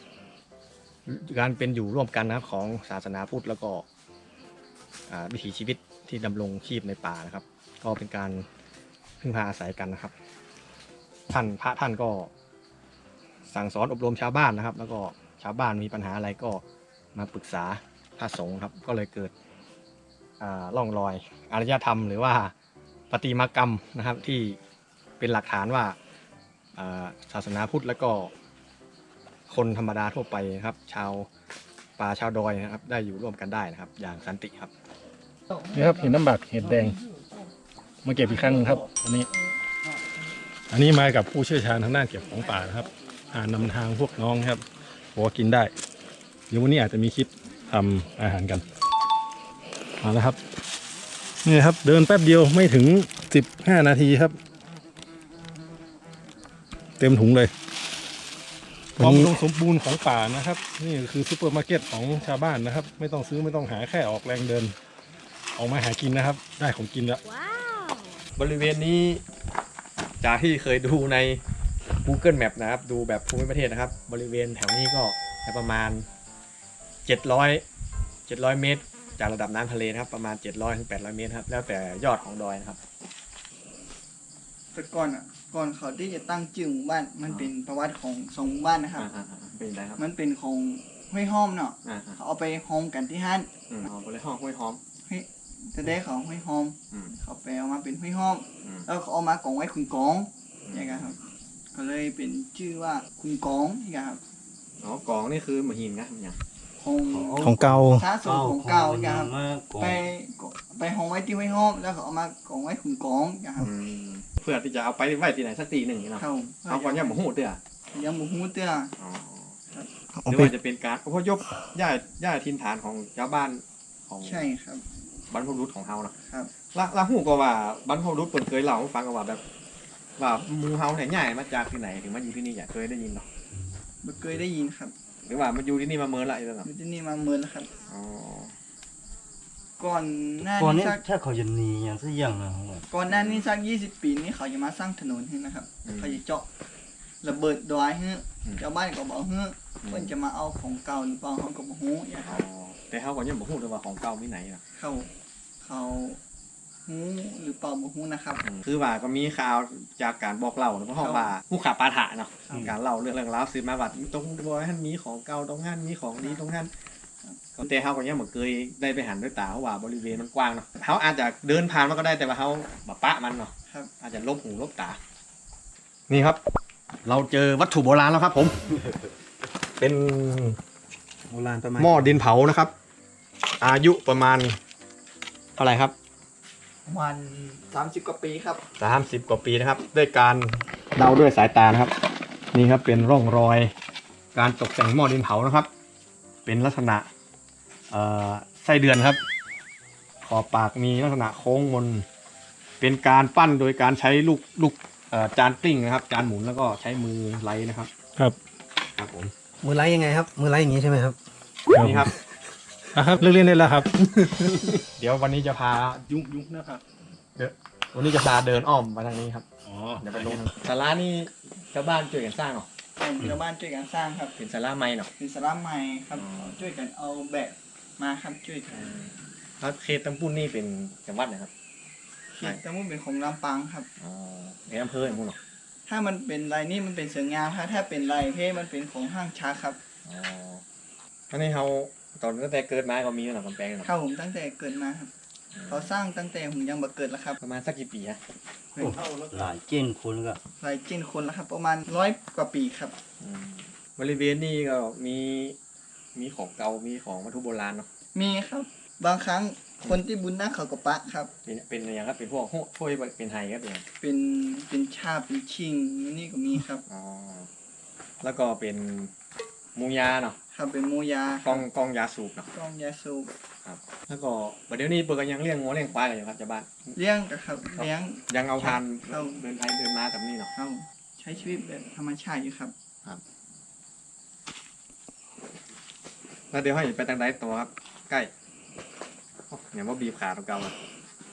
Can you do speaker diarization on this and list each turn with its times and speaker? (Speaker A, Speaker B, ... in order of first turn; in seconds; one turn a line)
Speaker A: 1.1-3.8
Speaker A: 5.1-8.4
Speaker A: 9.2-10.1
Speaker A: 11.3-12.3
Speaker A: 13.5-16.6
Speaker A: 17.1-19.3
Speaker A: 20.4-22.5
Speaker A: 23.1-24.6
Speaker A: 25.2-26.0
Speaker A: 26.8-28.3
Speaker A: 29.5-31.3
Speaker A: 32.0-34.7
Speaker B: 35.7-37.0
Speaker B: 38.0-39.3
Speaker B: 40.7-45.7
Speaker B: 46.5-48.6
Speaker B: 50.0-50.4
Speaker B: 51.4-54.4
Speaker B: 57.0-57.5
Speaker C: 59.0-59.4
Speaker B: 59.0-64.7
Speaker B: 65.5-67.2
Speaker A: 68.4-69.2
Speaker A: 70.2-71.4
Speaker A: 72.0-76.0
Speaker A: 77.0-77.6
Speaker A: 78.3-82.8
Speaker D: 84.7-89.1
Speaker A: 89.0-90.0
Speaker D: 90.0-93.5
Speaker A: 91.8-92.2
Speaker A: 93.7-94.8
Speaker D: 95.1-101.2
Speaker A: 100.7-101.2
Speaker D: 101.7-104.2
Speaker A: 104.8-106.4
Speaker D: 106.8-113.7
Speaker E: 107.1-110.0
Speaker C: 107.4-108.0
Speaker A: 113.6-117.6
Speaker D: 116.2-117.2
Speaker D: 117.9-118.9
Speaker A: 119.0-119.5
Speaker C: 120.1-120.5
Speaker A: 120.3-124.4
Speaker D: 124.2-124.8
Speaker A: 125.3-126.1
Speaker A: 126.7-129.4
Speaker A: 130.2-133.3
Speaker D: 134.0-134.9
Speaker A: 135.2-136.7
Speaker D: 136.6-137.7
Speaker A: 137.9-138.5
Speaker D: 139.8-141.0
Speaker E: 140.4-142.8
Speaker D: 142.9-146.5
Speaker A: 143.1-143.5
Speaker A: 145.8-146.2
Speaker D: 147.2-152.4
Speaker A: 149.8-150.1
Speaker A: 152.2-154.6
Speaker D: 154.8-156.2
Speaker D: 156.8-158.4
Speaker A: 158.4-166.7
Speaker D: 161.0-161.3
Speaker D: 162.5-162.7
Speaker A: 167.5-175.0
Speaker A: 176.1-176.4
Speaker A: 177.0-178.6
Speaker A: 179.8-180.6
Speaker E: 181.3-181.9
Speaker A: 181.7-182.7
Speaker A: 183.6-184.6
Speaker A: 185.6-185.9
Speaker D: 186.8-188.6
Speaker A: 188.8-191.9
Speaker A: 192.5-193.7
Speaker A: 194.3-195.7
Speaker A: 196.4-197.1
Speaker A: 197.9-199.2
Speaker A: 200.2-202.1
Speaker A: 202.8-207.9
Speaker A: 208.9-209.3
Speaker C: 209.6-211.2
Speaker B: 211.7-212.1
Speaker A: 211.7-212.1
Speaker B: 212.9-214.8
Speaker A: 214.3-216.1
Speaker B: 216.1-216.8
Speaker A: 217.4-219.4
Speaker B: 219.6-220.4
Speaker A: 220.0-222.7
Speaker D: 223.0-224.3
Speaker A: 224.4-225.1
Speaker D: 225.2-228.7
Speaker A: 226.2-226.6
Speaker A: 228.7-231.5
Speaker D: 232.4-233.9
Speaker A: 234.0-235.4
Speaker D: 235.9-239.8
Speaker A: 240.0-240.6
Speaker A: 241.3-243.9
Speaker D: 243.8-245.1
Speaker A: 245.5-245.9
Speaker D: 245.7-247.4
Speaker A: 247.4-248.2
Speaker D: 248.7-249.0
Speaker E: 248.8-250.4
Speaker B: 249.1-249.5
Speaker D: 250.6-252.9
Speaker A: 253.2-255.6
Speaker A: 256.1-257.9
Speaker D: 258.1-261.3
Speaker A: 261.4-263.8
Speaker D: 264.0-266.8
Speaker A: 266.9-267.5
Speaker A: 268.2-269.1
Speaker A: 269.8-270.4
Speaker D: 270.5-271.6
Speaker A: 271.4-272.5
Speaker D: 272.5-273.3
Speaker A: 273.6-276.9
Speaker D: 276.9-279.4
Speaker A: 277.8-280.5
Speaker D: 280.5-282.7
Speaker A: 286.5-288.3
Speaker A: 289.5-290.7